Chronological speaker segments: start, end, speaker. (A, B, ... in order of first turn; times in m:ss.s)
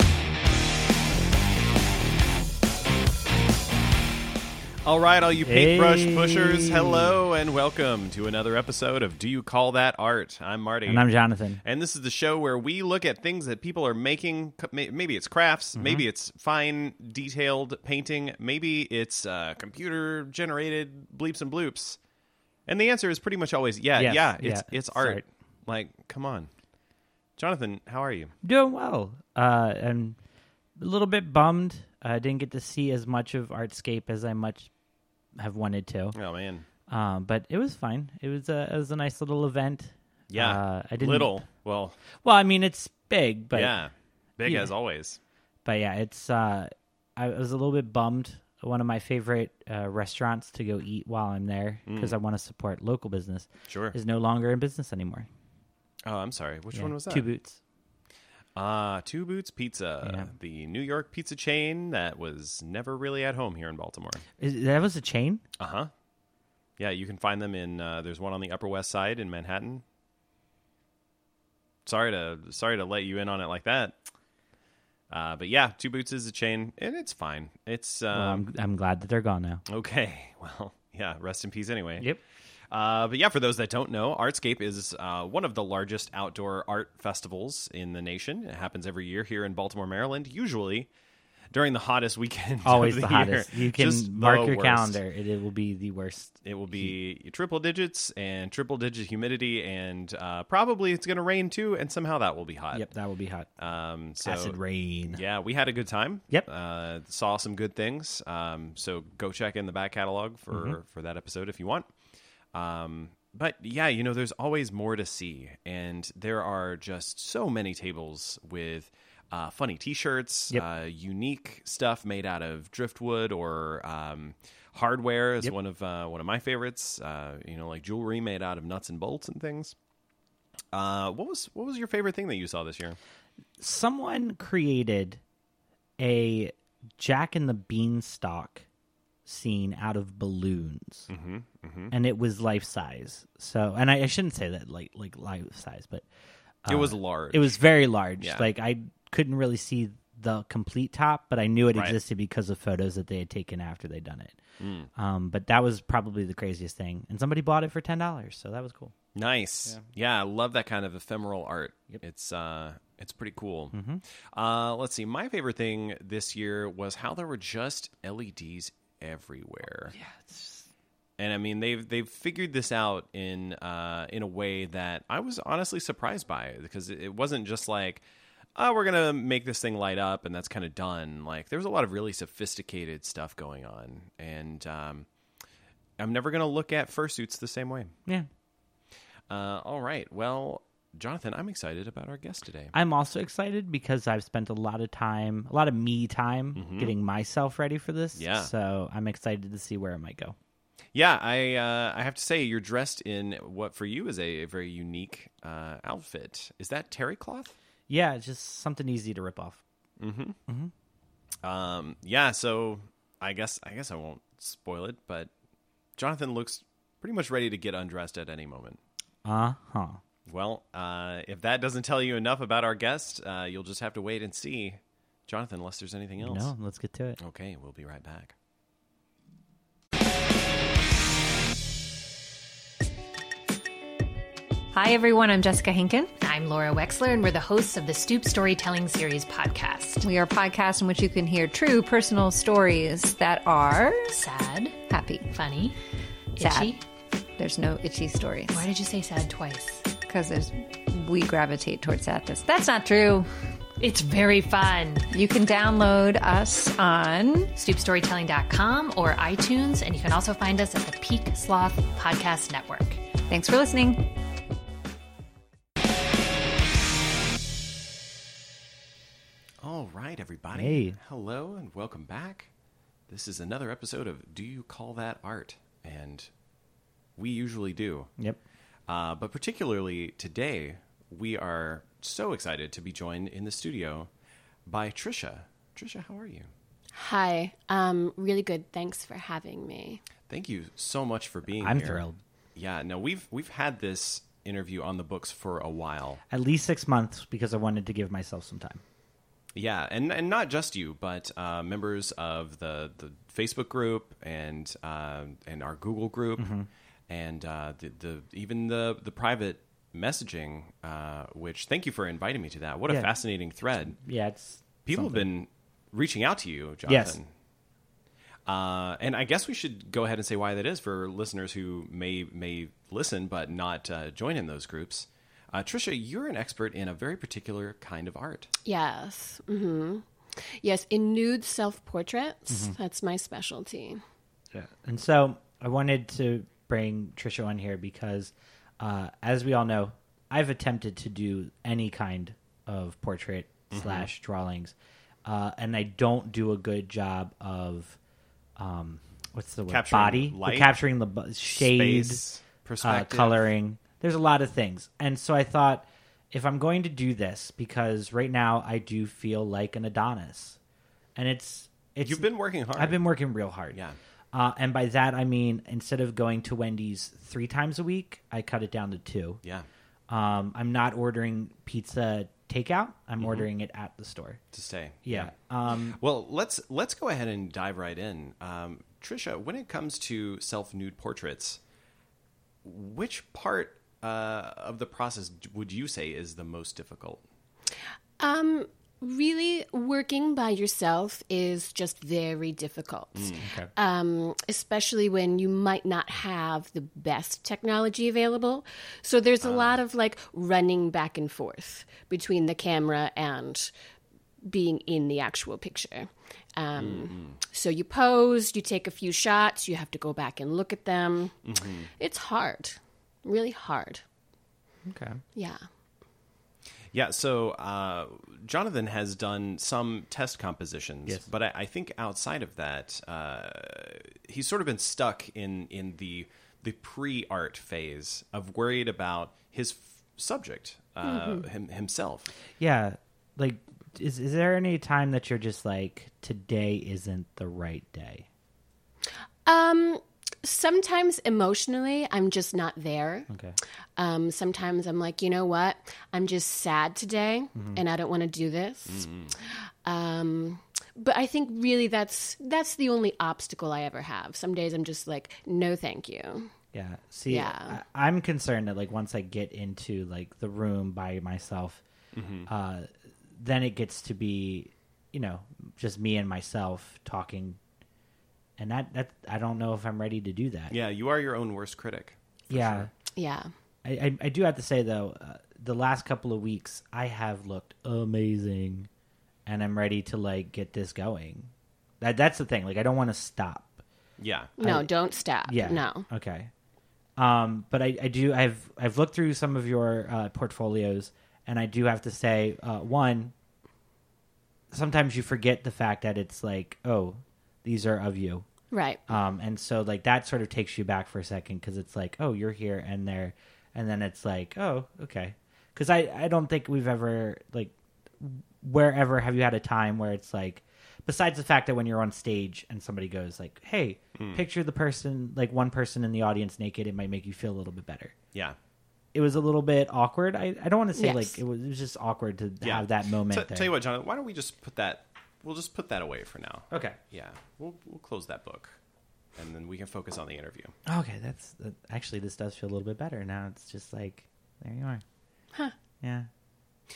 0:04.8-0:11.1 A
0:05.4-0:07.2 B
0:10.8-0:11.6 B
0:11.6-0:22.0 A
0:15.7-0:16.0 B
0:22.7-0:26.5 A
0:24.0-0:25.2 B
0:27.4-0:28.3 A
0:28.4-0:30.2 B
0:30.8-0:34.7 B
0:35.3-0:36.2 B
0:36.1-0:36.7 A
0:36.9-0:41.4 B
0:40.3-0:42.0 A
0:42.2-0:43.8 B
0:43.5-0:45.2 A
0:44.4-0:44.7 B
0:45.6-0:55.3 B
0:51.9-0:52.2 A
0:53.7-0:54.0 A
0:56.0-0:57.3 A
0:56.7-0:57.6 B
0:58.6-1:04.2 A
1:00.0-1:00.3 B
1:04.4-1:05.4 B
1:05.6-1:05.9 A
1:06.8-1:09.8 A
1:11.8-1:14.0 A
1:15.1-1:18.4 A
1:18.1-1:19.6 B
1:19.7-1:22.1 A
1:22.7-1:30.9 A
1:31.5-1:35.0 A
1:32.6-1:36.9 B
1:36.4-1:42.9 A
1:42.7-1:43.5 B
1:43.6-1:51.9 A
1:44.2-1:45.2 B
1:50.5-1:50.8 B
1:52.5-2:09.8 A
2:10.7-2:13.0 A
2:13.6-2:15.2 B
2:16.0-2:18.6 B
2:19.2-2:21.1 B
2:21.1-2:21.9 A
2:21.9-2:26.1 B
2:26.6-2:34.4 B
2:26.7-2:27.5 A
2:28.2-2:28.5 A
2:31.7-2:32.0 A
2:34.6-2:34.9 A
2:35.0-2:38.9 B
2:39.2-2:43.8 A
2:43.7-2:44.0 B
2:44.3-2:50.0 A
2:49.9-2:50.7 B
2:51.2-2:58.0 A
2:58.6-3:05.1 A
3:06.0-3:07.9 A
3:09.3-3:12.7 A
3:12.7-3:20.4 B
3:16.6-3:16.9 A
3:18.2-3:18.5 A
3:20.9-3:27.6 A
3:27.9-3:29.6 B
3:30.0-3:30.4 A
3:31.4-3:35.3 A
3:36.0-3:38.8 A
3:39.2-3:40.0 B
3:40.3-3:46.5 A
3:46.2-3:47.2 B
3:47.2-3:48.3 A
3:54.7-3:56.1 C
3:56.2-4:00.1 D
4:00.0-4:04.2 C
4:04.1-4:05.8 D
4:04.9-4:05.3 C
4:06.4-4:06.8 D
4:06.4-4:06.8 C
4:07.4-4:08.7 C
4:08.5-4:09.9 D
4:10.0-4:13.3 C
4:13.8-4:15.1 D
4:15.1-4:17.5 C
4:17.6-4:23.0 D
4:23.3-4:24.0 C
4:29.6-4:32.5 A
4:30.5-4:31.0 B
4:33.1-4:36.3 A
4:37.2-4:38.1 A
4:38.9-4:44.1 A
4:44.7-4:46.5 A
4:46.9-4:50.0 E
4:50.3-4:52.0 A
4:51.6-4:52.2 B
4:52.6-4:56.2 A
4:56.3-4:58.8 B
4:59.6-5:06.5 A
5:06.4-5:06.7 B
5:07.1-5:14.0 A
5:12.9-5:13.1 B
5:14.0-5:15.3 B
5:14.8-5:17.3 A
5:16.9-5:17.2 B
5:18.5-5:28.5 A
5:28.6-5:34.0 E
5:32.5-5:32.8 B
5:34.5-5:48.0 B
5:43.7-5:44.1 A
5:48.6-5:52.2 B
5:49.7-5:50.7 A
5:51.5-5:53.5 A
5:52.8-6:00.6 B
6:01.1-6:03.8 B
6:02.0-6:03.0 A
6:03.7-6:04.0 A
6:04.3-6:09.4 B
6:10.1-6:14.4 B
6:13.2-6:13.5 A
6:14.5-6:21.6 A
6:15.0-6:16.0 B
6:22.6-6:27.2 A
6:28.2-6:43.7 E
6:33.4-6:33.7 B
6:39.4-6:39.8 A
6:44.4-6:51.4 E
6:46.8-6:47.4 A
6:51.4-6:51.9 A
6:52.0-6:54.0 E
6:54.9-6:55.2 B
6:55.4-6:55.6 E
6:56.9-7:12.3 A
7:11.0-7:11.4 E
7:12.6-7:18.3 B
7:19.4-7:23.3 E
7:23.3-7:23.6 B
7:24.0-7:36.5 E
7:27.6-7:27.8 B
7:28.9-7:29.3 A
7:36.7-7:41.8 B
7:37.3-7:37.8 E
7:42.1-7:42.5 A
7:42.4-7:47.6 B
7:48.6-7:50.8 B
7:50.7-7:52.9 A
7:52.5-7:52.9 B
7:53.1-7:53.5 E
7:53.8-7:58.9 B
7:59.4-8:03.8 B
8:04.2-8:04.5 A
8:04.6-8:06.1 E
8:04.6-8:04.9 B
8:05.4-8:06.5 B
8:07.2-8:13.3 B
8:14.7-8:18.4 B
8:18.7-8:19.0 E
8:19.1-8:38.1 B
8:34.2-8:34.4 A
8:39.1-8:43.7 B
8:41.0-8:41.4 E
8:42.6-8:48.8 A
8:46.7-8:47.0 B
8:49.4-8:50.8 A
8:50.9-8:55.0 B
8:56.0-8:56.3 B